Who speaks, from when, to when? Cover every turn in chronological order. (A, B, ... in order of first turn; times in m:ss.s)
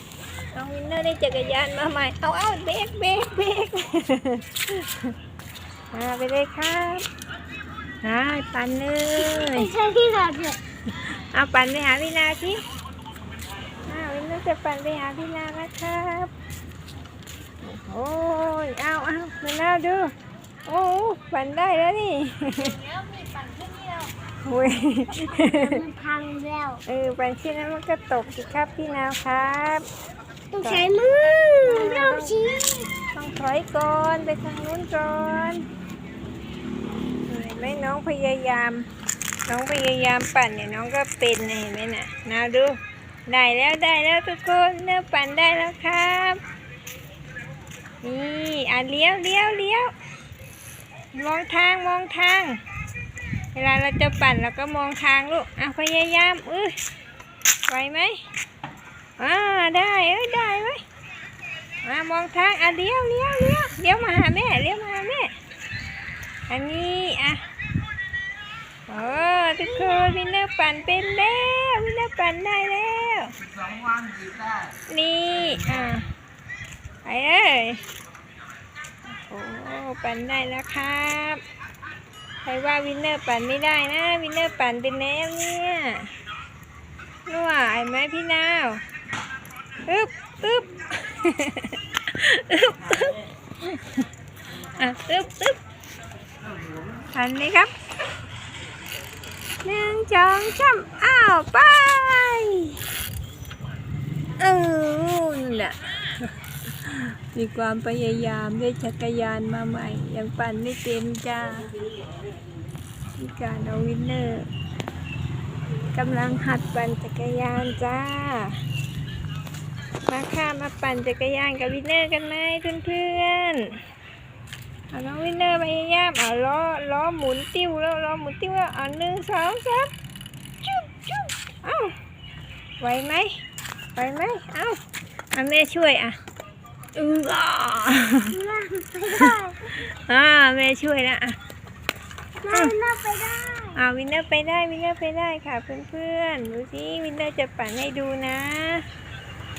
0:00.5-0:05.1 A
0:05.9-0:07.1 A
0:08.0-0:09.7 A
0:09.2-0:10.6 B
0:11.0-0:12.6 A
0:13.9-0:16.3 A
0:17.6-0:20.1 A
0:20.6-0:22.8 A
0:22.6-0:24.1 B
0:24.4-0:25.8 A
0:25.2-0:26.8 B
0:26.8-0:29.9 A
0:30.5-0:32.9 B
0:31.6-0:32.3 A
0:33.1-0:35.6 A
0:37.3-0:38.8 A
0:39.4-0:46.4 A
0:48.0-0:49.9 A
0:51.1-0:52.6 A
0:53.5-0:56.8 A
0:57.7-0:58.2 A
0:59.2-1:00.8 A
1:01.8-1:05.3 A
1:06.5-1:07.4 A
1:08.9-1:13.3 A
1:14.9-1:16.1 A
1:17.0-1:17.8 A
1:19.1-1:21.4 A
1:22.4-1:26.1 A
1:27.3-1:28.8 A
1:29.8-1:34.0 A
1:34.6-1:35.6 A
1:37.1-1:37.7 A
1:39.6-1:42.8 A
1:44.4-1:51.7 A
1:53.2-1:54.5 A
1:55.9-1:58.6 A
2:00.1-2:03.8 A
2:04.9-2:09.9 A
2:10.6-2:12.0 A
2:12.8-2:13.4 A
2:14.0-2:14.8 A
2:15.3-2:16.2 A
2:16.9-2:18.4 A
2:18.3-2:19.8 B
2:19.2-2:21.4 A
2:22.4-2:23.8 B
2:23.7-2:28.8 A